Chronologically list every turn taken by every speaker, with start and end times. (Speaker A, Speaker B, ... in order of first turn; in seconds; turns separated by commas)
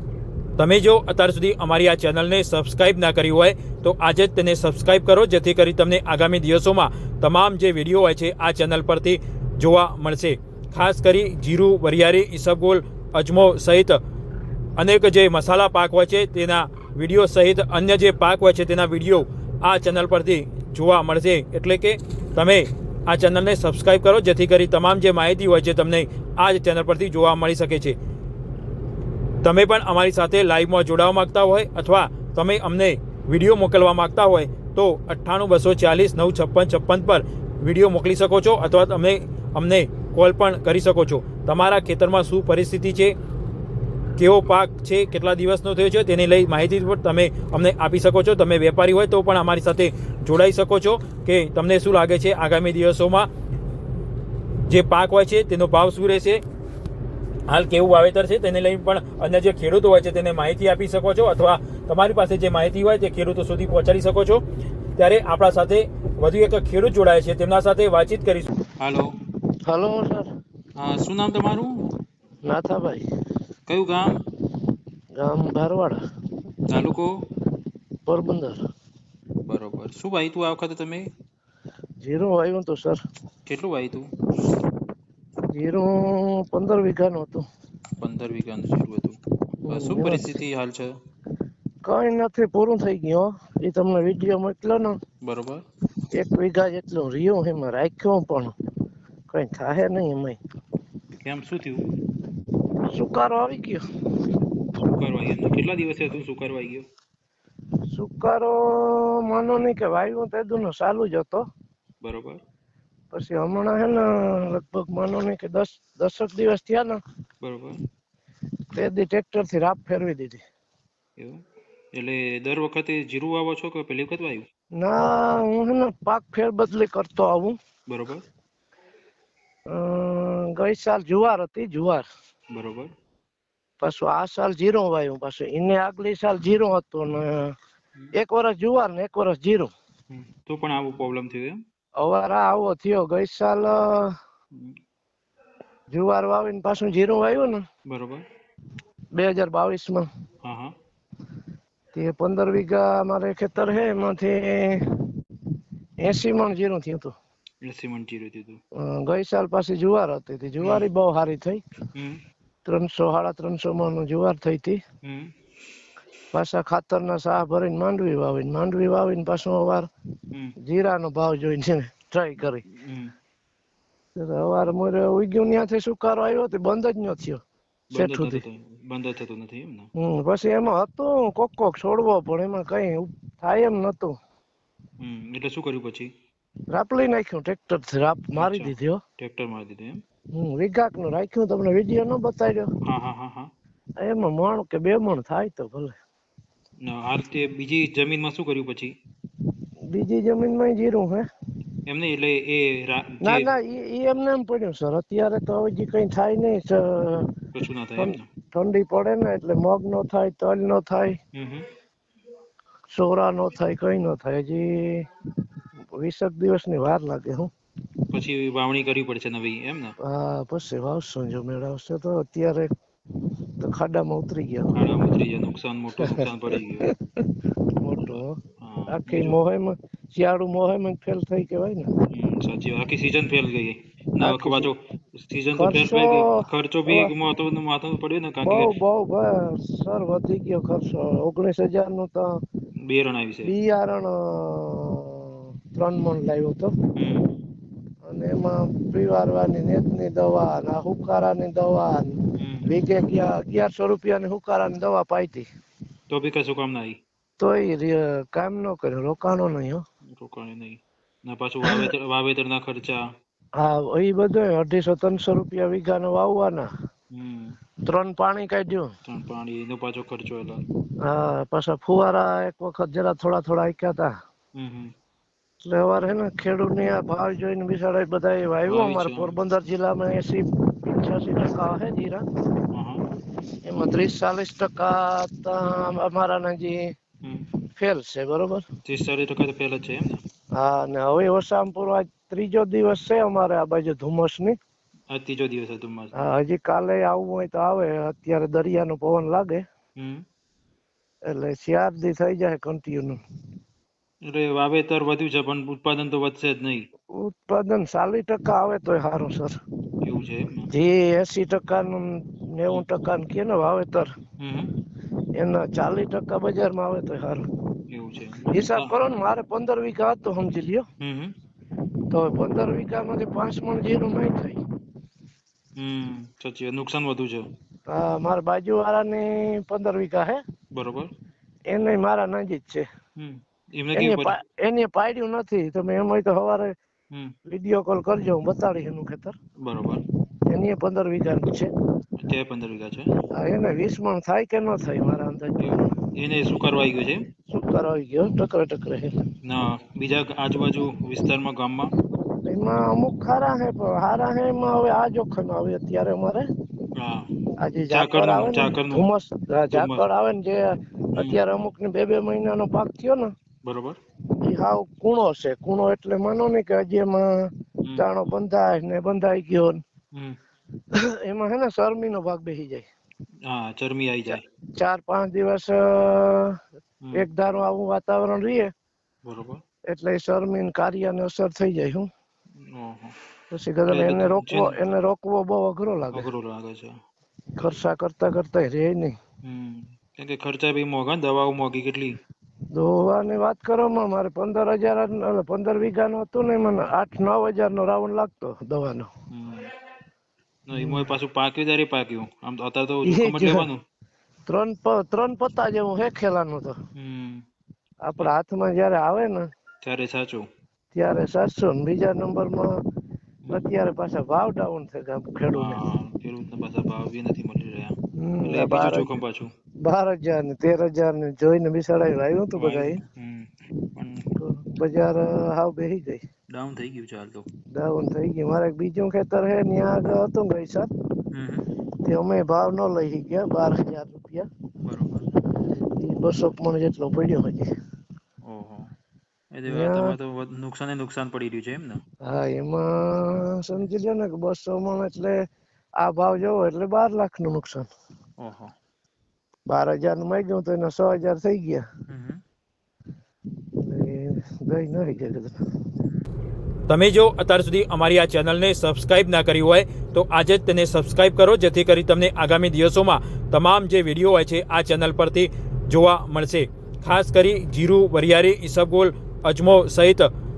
Speaker A: 0.6-14.0, Speaker A: 14.8-28.0, Speaker A: 29.4-43.1, Speaker A: 44.2-53.3, Speaker A: 54.7-56.4, Speaker A: 57.5-64.4, Speaker A: 65.0-68.5, Speaker B: 68.8-69.1, Speaker C: 69.7-70.3, Speaker B: 70.8-71.9, Speaker C: 72.4-73.1, Speaker B: 73.7-74.2, Speaker C: 75.2-76.0, Speaker B: 76.7-77.1, Speaker C: 78.1-78.6, Speaker B: 79.4-81.1, Speaker C: 82.0-83.0, Speaker B: 83.5-84.1, Speaker C: 85.5-87.5, Speaker B: 88.0-90.9, Speaker C: 89.6-90.4, Speaker C: 91.8-95.0, Speaker B: 95.2-95.6, Speaker C: 96.1-98.5, Speaker C: 99.3-100.4, Speaker B: 101.2-101.9, Speaker C: 102.9-103.8, Speaker B: 104.8-106.9, Speaker C: 107.9-111.5, Speaker B: 112.0-112.4, Speaker C: 113.1-117.0, Speaker B: 117.4-117.8, Speaker C: 118.7-120.4, Speaker B: 122.0-124.5, Speaker C: 124.8-127.6, Speaker B: 127.9-128.2, Speaker C: 129.7-132.0, Speaker B: 132.5-132.9, Speaker C: 133.8-137.6, Speaker C: 138.1-139.7, Speaker B: 140.1-141.6, Speaker C: 142.0-144.2, Speaker C: 145.9-147.6, Speaker B: 147.9-148.2, Speaker C: 149.1-150.1, Speaker B: 150.4-150.8, Speaker C: 151.9-154.8, Speaker C: 156.0-157.1, Speaker B: 157.6-158.6, Speaker C: 158.8-161.6, Speaker B: 160.6-160.9, Speaker B: 161.9-162.2, Speaker C: 162.7-164.8, Speaker B: 165.0-165.3, Speaker C: 166.3-169.9, Speaker C: 170.6-172.7, Speaker B: 172.7-173.1, Speaker C: 174.2-177.4, Speaker B: 177.9-179.9, Speaker C: 177.9-178.4, Speaker C: 180.0-184.2, Speaker B: 185.0-186.1, Speaker C: 186.7-189.0, Speaker B: 188.3-190.0, Speaker C: 190.3-192.7, Speaker B: 192.8-193.5, Speaker C: 194.0-195.9, Speaker B: 196.8-198.9, Speaker C: 199.9-201.2, Speaker B: 201.9-203.5, Speaker C: 203.2-207.3, Speaker B: 207.5-208.3, Speaker C: 208.0-211.2, Speaker B: 211.4-211.7, Speaker C: 212.9-215.1, Speaker C: 215.9-217.5, Speaker B: 218.1-219.9, Speaker C: 220.0-222.7, Speaker C: 223.6-225.0, Speaker B: 224.8-226.9, Speaker C: 226.0-226.2, Speaker C: 226.8-231.9, Speaker B: 228.6-229.4, Speaker B: 232.1-238.7, Speaker C: 234.2-234.7, Speaker C: 235.6-237.1, Speaker C: 238.4-242.4, Speaker B: 242.9-243.5, Speaker C: 243.4-246.7, Speaker B: 246.9-247.4, Speaker C: 248.0-255.5, Speaker B: 252.4-252.7, Speaker B: 256.1-257.0, Speaker C: 257.4-259.8, Speaker B: 260.1-263.0, Speaker C: 261.6-261.9, Speaker C: 263.6-266.7, Speaker B: 267.1-267.6, Speaker C: 267.9-268.9, Speaker B: 269.1-270.6, Speaker C: 271.0-274.1, Speaker B: 274.6-274.9, Speaker C: 275.6-282.2, Speaker B: 278.6-279.4, Speaker B: 282.7-283.0, Speaker C: 283.7-286.9, Speaker C: 287.8-288.6, Speaker B: 288.9-290.2, Speaker C: 290.6-294.6, Speaker B: 295.1-296.3, Speaker C: 296.1-299.6, Speaker B: 300.0-300.2, Speaker C: 301.3-303.2, Speaker B: 304.2-306.9, Speaker C: 307.1-309.5, Speaker B: 310.0-310.7, Speaker C: 310.7-314.1, Speaker B: 314.4-314.8, Speaker C: 315.4-317.4, Speaker B: 317.9-318.9, Speaker C: 318.5-320.9, Speaker B: 321.0-321.4, Speaker C: 322.1-324.6, Speaker B: 325.8-327.5, Speaker C: 327.9-330.4, Speaker B: 330.7-331.1, Speaker C: 331.7-332.9, Speaker B: 333.2-334.4, Speaker C: 333.9-336.8, Speaker C: 337.5-339.4, Speaker B: 339.6-340.0, Speaker C: 340.5-341.7, Speaker B: 342.2-343.2, Speaker C: 343.3-345.8, Speaker B: 345.6-347.3, Speaker C: 347.5-349.2, Speaker B: 349.4-351.9, Speaker C: 352.4-356.5, Speaker B: 356.9-357.3, Speaker C: 357.6-363.3, Speaker B: 357.9-359.1, Speaker B: 359.7-360.0, Speaker B: 361.2-361.4, Speaker B: 363.6-364.0, Speaker C: 364.4-369.8, Speaker B: 367.8-368.1, Speaker C: 370.9-372.9, Speaker B: 373.5-374.4, Speaker C: 374.8-376.6, Speaker C: 377.1-378.7, Speaker B: 379.2-379.6, Speaker C: 379.9-382.1, Speaker B: 382.7-383.1, Speaker C: 383.5-386.3, Speaker B: 383.9-384.9, Speaker B: 386.1-386.9, Speaker C: 387.6-389.2, Speaker B: 389.4-392.2, Speaker C: 392.7-399.1, Speaker B: 399.3-399.7, Speaker B: 400.7-403.8, Speaker C: 400.7-401.1, Speaker C: 403.0-403.7, Speaker C: 404.5-406.8, Speaker B: 406.9-407.4, Speaker C: 408.0-409.5, Speaker B: 409.8-410.5, Speaker C: 410.9-412.7, Speaker C: 413.5-415.8, Speaker B: 415.5-419.5, Speaker C: 418.2-419.1, Speaker C: 419.8-423.0, Speaker B: 422.6-424.3, Speaker C: 424.4-426.2, Speaker B: 426.5-427.5, Speaker C: 427.7-430.9, Speaker B: 431.3-431.7, Speaker C: 432.0-434.5, Speaker B: 434.8-435.3, Speaker C: 435.9-437.7, Speaker B: 438.4-438.9, Speaker B: 439.5-442.0, Speaker C: 439.7-440.2, Speaker C: 442.2-445.4, Speaker C: 446.0-447.9, Speaker B: 448.4-448.7, Speaker C: 449.7-451.9, Speaker B: 452.1-452.4, Speaker C: 453.8-455.6, Speaker A: 456.9-470.3